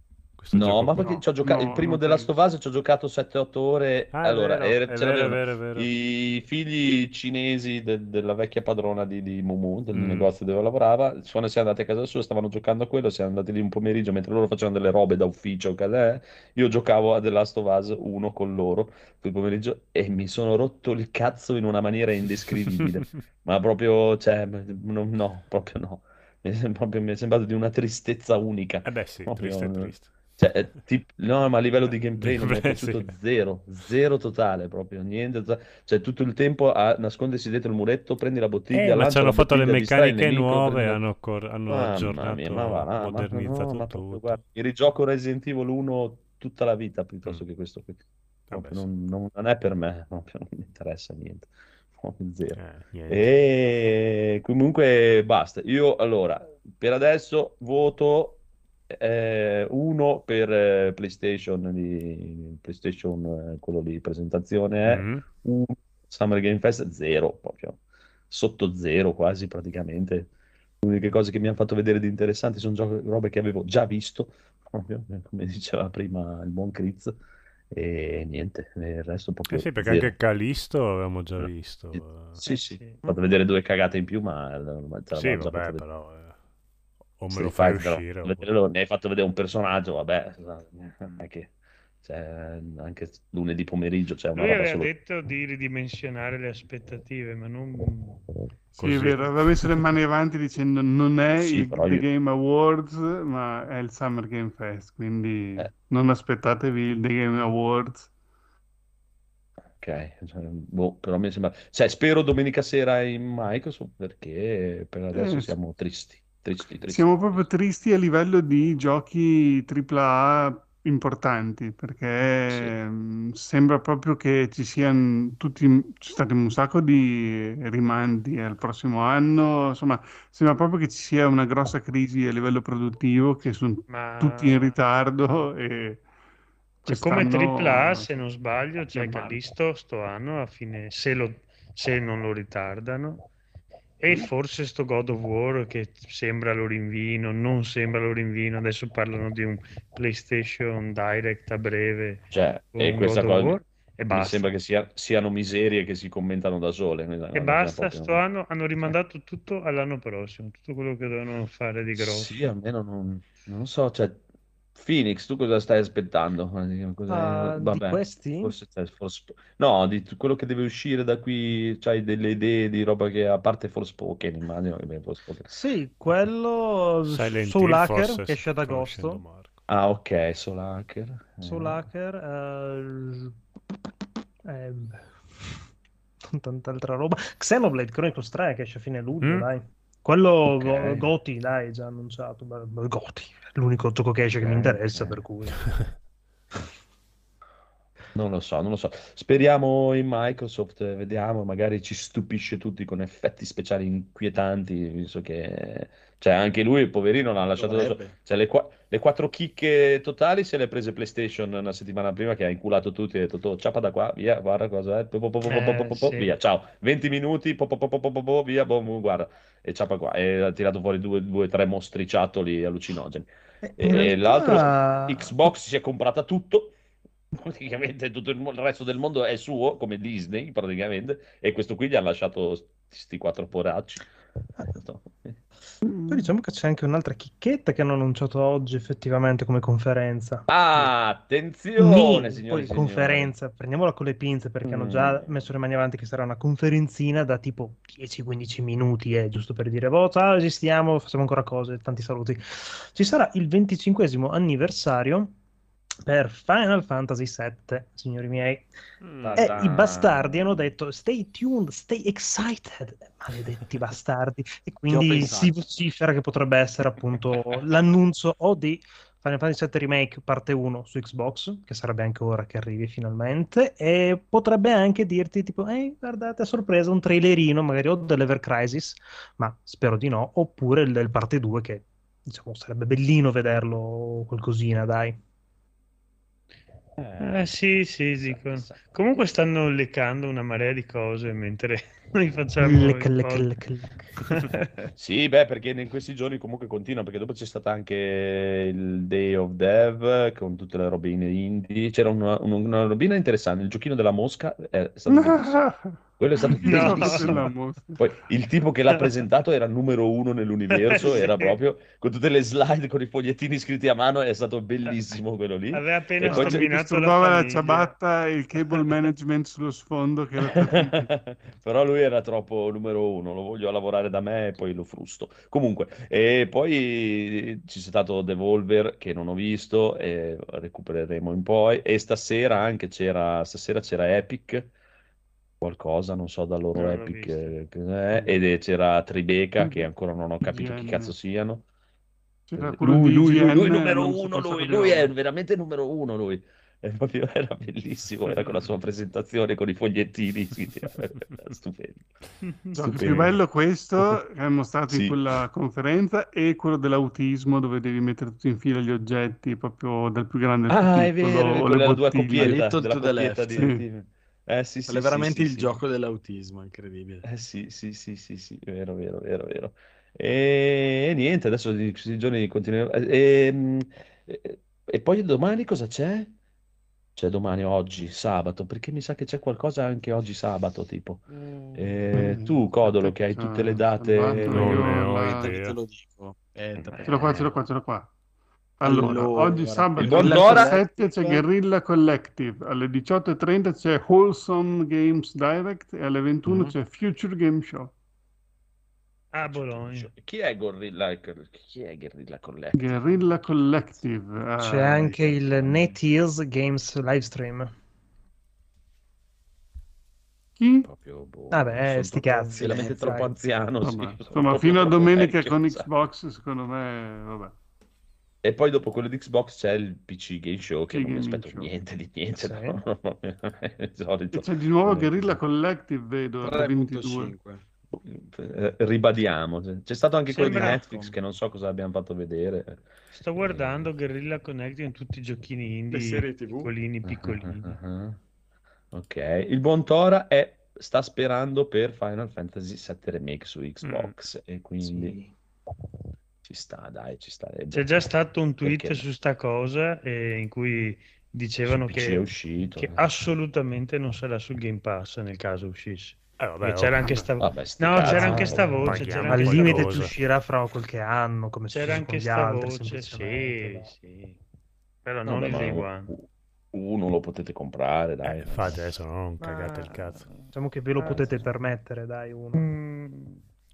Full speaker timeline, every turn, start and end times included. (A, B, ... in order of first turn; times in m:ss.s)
0:00.4-0:01.3 A
0:00.5-0:41.0 B
0:01.4-0:02.3 C
0:04.1-0:05.9 A
0:09.9-0:10.3 A
0:28.8-0:30.2 A
0:32.2-0:33.1 A
0:38.7-0:44.4 A
0:41.7-1:10.3 B
0:48.5-0:48.8 A
0:52.6-0:53.3 A
1:04.9-1:05.3 A
1:10.8-1:17.2 B
1:17.7-1:20.1 B
1:19.5-1:22.4 A
1:21.4-1:25.9 B
1:22.4-1:23.0 D
1:25.1-1:26.3 A
1:27.2-1:28.5 A
1:27.3-1:31.5 B
1:32.0-1:34.9 B
1:34.4-1:38.2 D
1:38.7-1:48.1 C
1:38.8-1:39.7 A
1:41.4-1:42.1 B
1:49.8-1:57.4 B
1:55.1-1:55.5 C
1:56.9-2:16.0 C
2:13.9-2:14.8 D
2:16.8-2:18.1 C
2:16.9-2:23.3 D
2:18.9-2:19.4 C
2:24.0-2:34.5 D
2:32.3-2:33.6 B
2:34.1-2:38.2 B
2:37.3-2:42.5 D
2:42.0-2:44.2 B
2:44.8-2:55.5 B
2:47.1-2:48.6 E
2:55.5-2:59.2 E
2:57.1-2:59.5 A
2:59.7-3:01.8 B
3:01.4-3:03.4 E
3:04.4-3:05.1 E
3:06.2-3:15.6 E
3:09.2-3:09.5 A
3:10.5-3:11.1 B
3:14.4-3:15.2 B
3:18.1-3:46.7 B
3:27.6-3:28.2 F
3:35.5-3:36.3 D
3:43.6-3:45.4 E
3:47.3-3:54.1 B
3:54.7-3:55.4 B
3:55.8-3:56.3 C
3:56.1-4:00.9 E
4:00.5-4:03.3 B
4:01.8-4:15.3 E
4:04.6-4:05.3 B
4:16.0-4:18.7 E
4:19.1-4:19.6 A
4:19.2-4:20.7 B
4:19.4-4:45.2 E
4:24.9-4:25.6 B
4:25.1-4:25.4 F
4:47.0-4:47.5 B
4:47.2-4:53.5 D
4:48.2-4:48.9 B
4:52.6-4:54.1 E
4:54.2-4:54.7 D
4:54.9-5:05.6 B
5:05.1-5:08.0 C
5:06.2-5:16.6 B
5:06.6-5:07.5 D
5:10.7-5:11.6 D
5:15.7-5:17.9 D
5:16.2-5:21.1 C
5:18.7-5:19.1 D
5:20.5-5:34.7 B
5:35.6-5:41.7 B
5:36.7-5:37.6 D
5:39.6-5:39.9 C
5:40.4-5:41.1 C
5:42.5-5:45.1 C
5:42.6-5:52.1 B
5:52.4-5:53.1 D
5:52.7-6:02.6 C
5:52.9-5:53.4 B
5:54.9-5:55.2 B
6:00.7-6:05.8 B
6:02.3-6:03.6 F
6:03.5-6:03.8 C
6:04.9-6:07.2 F
6:07.2-6:16.3 B
6:17.2-6:24.8 B
6:21.3-6:21.8 D
6:22.1-6:25.6 C
6:24.4-6:25.8 A
6:24.5-6:27.2 F
6:26.8-6:27.5 B
6:27.1-6:28.1 C
6:28.8-6:37.9 C
6:28.8-6:31.4 F
6:30.0-6:30.8 B
6:36.5-6:36.7 B
6:39.3-6:40.1 D
6:39.4-6:43.0 B
6:42.8-6:45.2 C
6:44.6-6:47.7 E
6:45.3-6:46.0 B
6:50.6-6:50.9 C
6:50.8-6:55.9 B
6:51.5-6:53.4 E
6:52.6-6:52.9 F
6:53.8-6:57.5 C
6:58.4-7:05.4 B
7:00.9-7:01.7 C
7:02.4-7:02.8 E
7:04.3-7:07.4 C
7:06.4-7:07.6 F
7:07.9-7:12.8 B
7:10.3-7:10.8 D
7:10.4-7:11.2 F
7:13.1-7:17.8 D
7:13.4-7:13.9 B
7:15.9-7:16.7 F
7:17.0-7:18.2 B
7:18.9-7:25.2 B
7:23.8-7:24.1 A
7:24.8-7:25.3 E
7:26.5-7:28.0 B
7:27.7-7:40.2 D
7:28.6-7:29.0 B
7:31.7-7:33.0 B
7:36.4-7:37.2 A
7:37.4-7:39.2 B
7:38.1-7:43.9 E
7:38.1-7:40.1 A
7:41.7-7:44.4 D
7:45.0-7:46.1 D
7:45.3-7:48.9 B
7:48.2-7:50.2 A
7:49.4-7:49.8 E
7:50.0-7:50.4 B
7:50.5-7:52.6 E
7:51.0-7:51.3 D
7:51.0-7:51.5 B
7:52.5-7:53.4 D